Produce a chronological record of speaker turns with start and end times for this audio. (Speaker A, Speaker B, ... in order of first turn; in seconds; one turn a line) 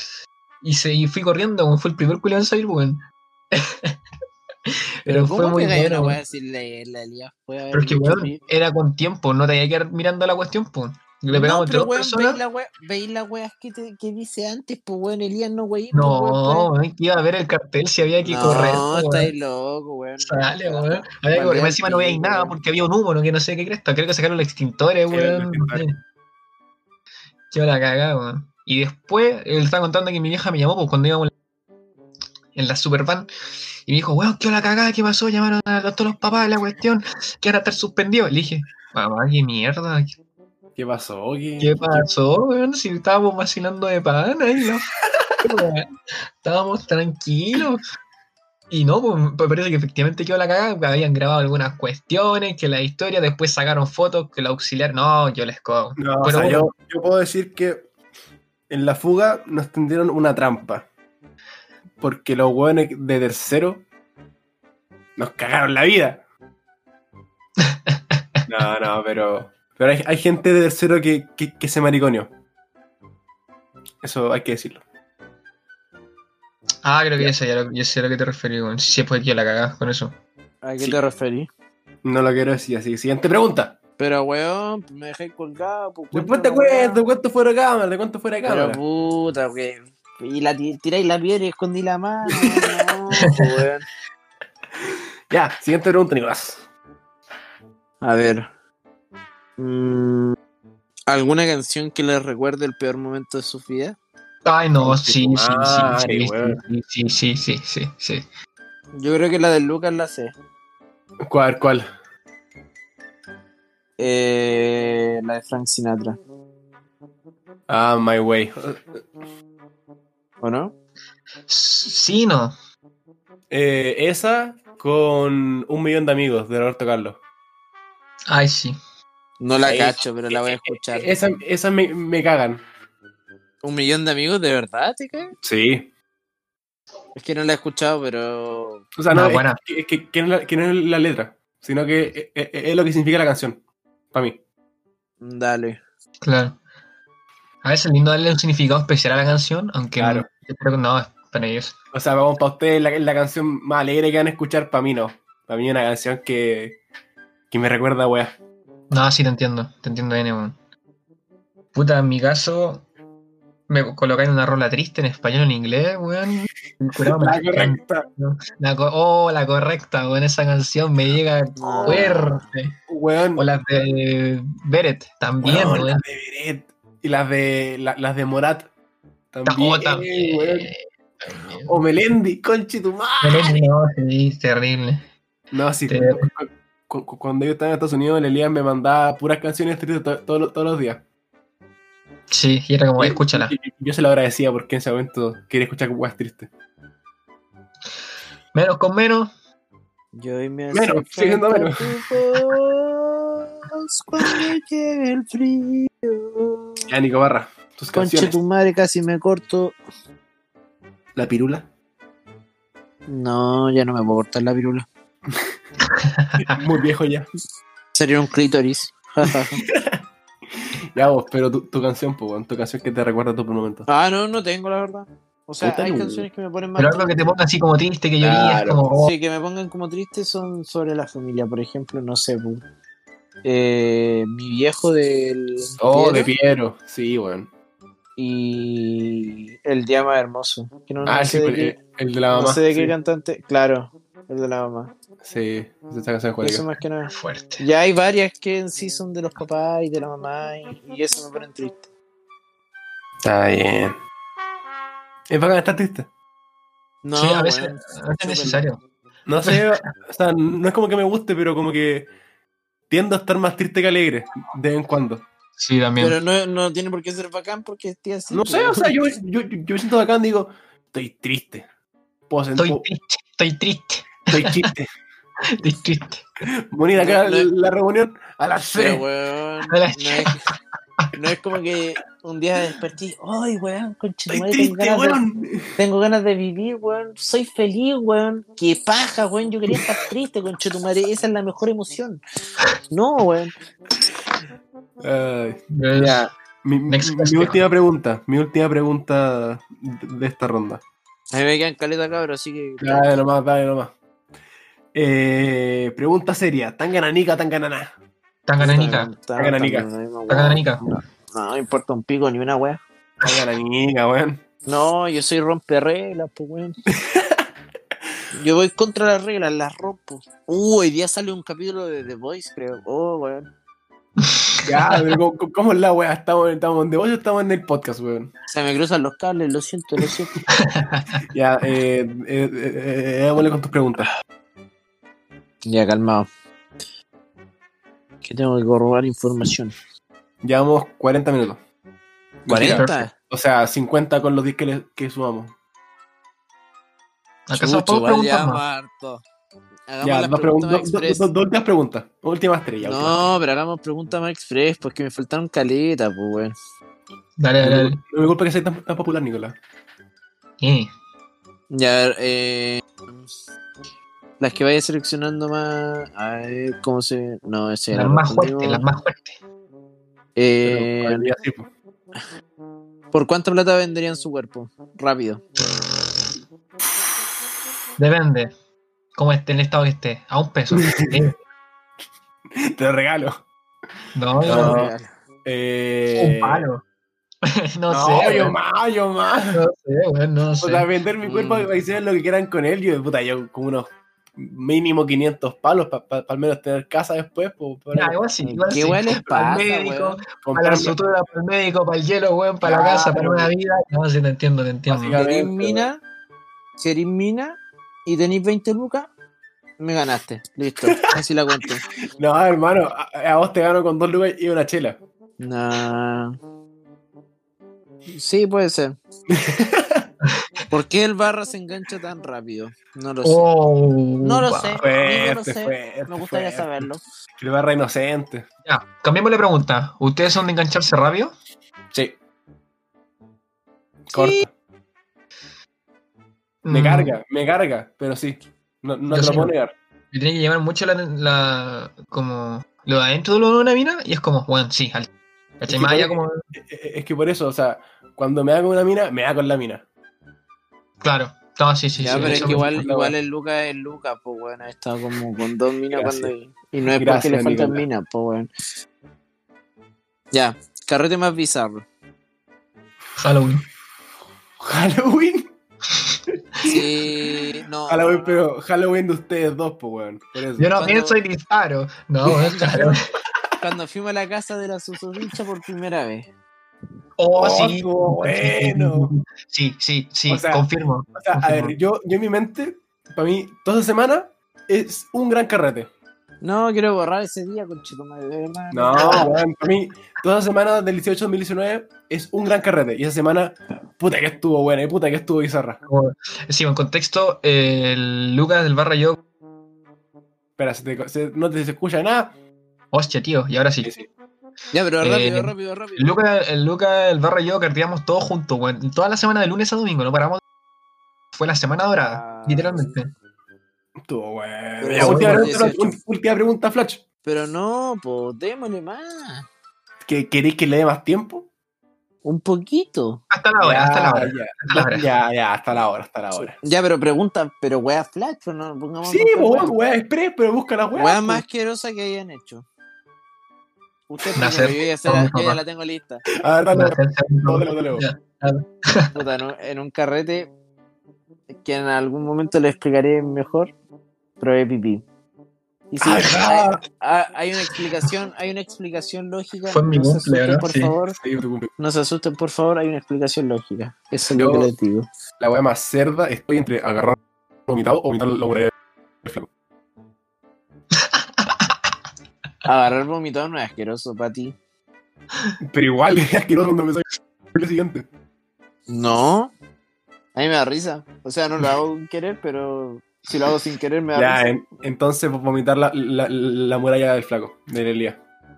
Speaker A: 0.6-4.0
Speaker A: 4.7-6.2
Speaker B: 5.1-8.4
Speaker A: 7.7-12.4
Speaker B: 11.3-16.7
Speaker A: 15.9-19.3
Speaker B: 18.3-22.6
Speaker A: 20.2-26.0
Speaker C: 25.1-25.9
Speaker A: 27.5-31.3
Speaker A: 32.5-33.3
Speaker A: 33.9-40.1
Speaker C: 40.8-42.1
Speaker A: 41.6-44.9
Speaker A: 45.4-45.9
Speaker A: 46.4-47.8
Speaker A: 48.7-56.7
Speaker C: 56.0-57.9
Speaker C: 58.7-60.9
Speaker C: 62.0-63.9
Speaker C: 65.2-66.2
Speaker A: 67.6-68.5
Speaker C: 68.5-72.3
Speaker C: 74.0-74.8
Speaker A: 76.8-80.2
Speaker B: 80.6-81.5
Speaker C: 82.0-83.8
Speaker B: 84.0-87.0
Speaker C: 86.1-88.8
Speaker B: 88.5-93.9
Speaker C: 92.3-92.9
Speaker C: 95.3-96.6
Speaker B: 98.0-98.5
Speaker B: 99.6-100.4
Speaker B: 101.1-104.0
Speaker A: 104.4-108.3
Speaker C: 104.8-106.6
Speaker B: 109.0-110.3
Speaker C: 111.2-111.9
Speaker B: 114.0-116.2
Speaker C: 117.7-119.0
Speaker B: 120.4-120.8
Speaker A: 121.5-122.5
Speaker C: 123.5-127.2
Speaker A: 128.3-128.8
Speaker B: 129.4-131.2
Speaker C: 129.7-132.7
Speaker B: 133.6-135.4
Speaker C: 135.4-135.9
Speaker B: 137.2-138.9
Speaker C: 139.0-143.6
Speaker A: 139.1-139.6
Speaker C: 144.1-144.4
Speaker B: 145.2-145.8
Speaker A: 146.2-146.6
Speaker A: 147.6-151.8
Speaker C: 150.0-150.3
Speaker C: 151.9-156.8
Speaker C: 157.5-158.3
Speaker A: 158.9-160.6
Speaker A: 161.7-162.9
Speaker A: 163.7-172.8
Speaker C: 166.9-168.1
Speaker C: 171.6-172.3
Speaker B: 171.6-172.4
Speaker C: 172.9-173.4
Speaker A: 173.4-176.0
Speaker C: 175.4-178.7
Speaker C: 179.3-180.7
Speaker A: 179.5-181.8
Speaker C: 181.7-183.6
Speaker A: 183.2-185.0
Speaker C: 185.5-191.0
Speaker A: 185.9-186.2
Speaker A: 192.3-193.5
Speaker C: 193.0-196.5
Speaker A: 198.5-199.3
Speaker B: 200.1-206.8
Speaker C: 200.7-202.0
Speaker C: 206.9-208.3
Speaker B: 207.9-209.8
Speaker C: 211.2-211.7
Speaker B: 213.1-214.9
Speaker A: 215.9-216.4
Speaker C: 216.4-217.3
Speaker B: 217.9-219.6
Speaker C: 219.3-220.0
Speaker C: 220.9-223.9
Speaker B: 223.9-227.3
Speaker C: 225.6-226.3
Speaker A: 226.8-229.1
Speaker C: 228.2-228.8
Speaker B: 229.0-232.6
Speaker B: 233.4-236.3
Speaker C: 235.8-237.5
Speaker B: 238.2-241.8
Speaker C: 241.1-242.9
Speaker B: 242.3-244.9
Speaker C: 245.2-246.7
Speaker B: 246.4-251.9
Speaker A: 247.1-247.6
Speaker C: 253.2-254.0
Speaker C: 255.3-256.1
Speaker B: 257.0-258.6
Speaker A: 257.1-258.8
Speaker C: 259.3-262.1
Speaker C: 262.9-265.2
Speaker A: 265.6-266.2
Speaker B: 266.0-268.9
Speaker C: 268.3-271.7
Speaker C: 272.3-272.9
Speaker A: 272.6-274.7
Speaker C: 274.3-274.9
Speaker A: 275.6-276.2
Speaker C: 276.7-279.0
Speaker B: 277.0-277.5
Speaker B: 278.7-280.5
Speaker A: 279.7-280.4
Speaker B: 281.1-285.2
Speaker C: 284.3-285.7
Speaker B: 285.8-292.2
Speaker B: 292.9-293.5
Speaker C: 295.0-300.8
Speaker A: 295.7-296.3
Speaker A: 296.9-297.6
Speaker B: 301.3-303.1
Speaker C: 302.8-303.9
Speaker C: 304.9-307.9
Speaker A: 308.5-309.1
Speaker B: 308.6-312.8
Speaker C: 309.4-309.9
Speaker A: 310.3-310.8
Speaker C: 313.2-314.4
Speaker B: 314.7-316.8
Speaker C: 316.9-317.4
Speaker B: 318.3-323.5
Speaker A: 324.2-325.2
Speaker C: 324.6-328.3
Speaker B: 328.5-330.4
Speaker A: 330.6-331.2
Speaker C: 331.3-334.1
Speaker B: 335.6-336.3
Speaker B: 338.2-339.8
Speaker C: 340.4-341.6
Speaker B: 342.4-343.1
Speaker C: 342.5-345.6
Speaker A: 342.6-343.1
Speaker A: 347.5-348.6
Speaker B: 347.5-349.2
Speaker B: 349.9-351.2
Speaker C: 350.0-353.3
Speaker B: 352.8-356.6
Speaker A: 357.4-358.0
Speaker C: 357.6-359.6
Speaker A: 360.6-360.9
Speaker B: 361.7-363.3
Speaker B: 364.4-368.9
Speaker A: 367.9-369.4
Speaker B: 370.4-371.3
Speaker C: 370.6-371.7
Speaker B: 373.1-375.5
Speaker A: 378.0-378.5
Speaker A: 379.1-381.4
Speaker C: 380.8-381.2
Speaker C: 382.6-383.4
Speaker A: 384.1-384.8
Speaker C: 384.4-384.9
Speaker B: 384.5-385.1
Speaker C: 385.4-386.7
Speaker A: 386.2-386.8
Speaker A: 387.4-388.6
Speaker C: 387.9-389.6
Speaker A: 389.5-390.9
Speaker C: 390.6-398.2
Speaker B: 391.2-391.7
Speaker A: 397.9-405.2
Speaker B: 398.4-400.2
Speaker C: 400.4-400.9
Speaker C: 402.6-403.5
Speaker C: 404.9-405.9
Speaker B: 405.2-406.0
Speaker B: 406.8-409.1
Speaker B: 409.8-411.9
Speaker C: 412.2-415.0
Speaker B: 415.4-416.4
Speaker B: 418.1-419.0
Speaker C: 419.3-420.1
Speaker B: 420.7-423.5
Speaker A: 423.2-424.8
Speaker B: 424.2-427.0
Speaker C: 424.8-428.5
Speaker A: 428.6-431.3
Speaker C: 434.1-434.5
Speaker B: 434.1-434.5
Speaker A: 436.6-437.2
Speaker C: 436.7-439.7
Speaker A: 439.1-439.5
Speaker A: 440.1-446.4
Speaker C: 445.7-449.9
Speaker A: 451.0-452.9
Speaker B: 452.0-458.5
Speaker C: 452.1-453.1
Speaker C: 455.9-456.3
Speaker C: 456.9-457.9
Speaker B: 460.3-461.9
Speaker A: 463.2-463.6
Speaker C: 464.6-465.5
Speaker C: 466.6-466.8
Speaker B: 466.6-468.4
Speaker C: 467.9-470.8
Speaker A: 470.6-473.0
Speaker B: 470.8-471.2
Speaker C: 472.3-472.9
Speaker B: 472.4-472.9
Speaker B: 473.6-476.3
Speaker A: 477.2-481.8
Speaker C: 477.4-479.1
Speaker C: 480.3-485.9
Speaker B: 486.4-489.3
Speaker C: 488.7-495.8
Speaker A: 489.0-489.3
Speaker A: 495.9-499.2
Speaker C: 500.6-502.4
Speaker A: 502.9-503.9
Speaker C: 503.8-504.1
Speaker B: 504.7-506.2
Speaker A: 505.0-510.4
Speaker A: 511.3-513.1
Speaker B: 512.0-513.0
Speaker C: 514.1-517.0
Speaker B: 514.8-515.9
Speaker A: 515.0-515.7
Speaker B: 517.2-519.5
Speaker C: 520.0-521.5
Speaker B: 522.2-523.2
Speaker A: 523.3-525.1
Speaker C: 523.6-526.6
Speaker B: 526.6-529.8
Speaker C: 529.0-531.4
Speaker B: 531.0-532.7
Speaker B: 534.1-536.2
Speaker A: 534.4-535.6
Speaker C: 536.4-538.0
Speaker A: 536.7-539.1
Speaker B: 539.1-540.5
Speaker B: 541.6-543.7
Speaker B: 544.4-545.0
Speaker B: 545.9-551.2
Speaker C: 546.0-546.8
Speaker A: 549.7-550.9
Speaker C: 551.1-551.7
Speaker B: 551.8-555.1
Speaker C: 554.4-554.7
Speaker C: 555.4-558.7
Speaker C: 559.2-559.5
Speaker A: 560.9-561.9
Speaker B: 562.6-564.6
Speaker C: 565.7-568.1
Speaker B: 568.9-569.5
Speaker B: 570.4-574.4
Speaker C: 574.1-578.2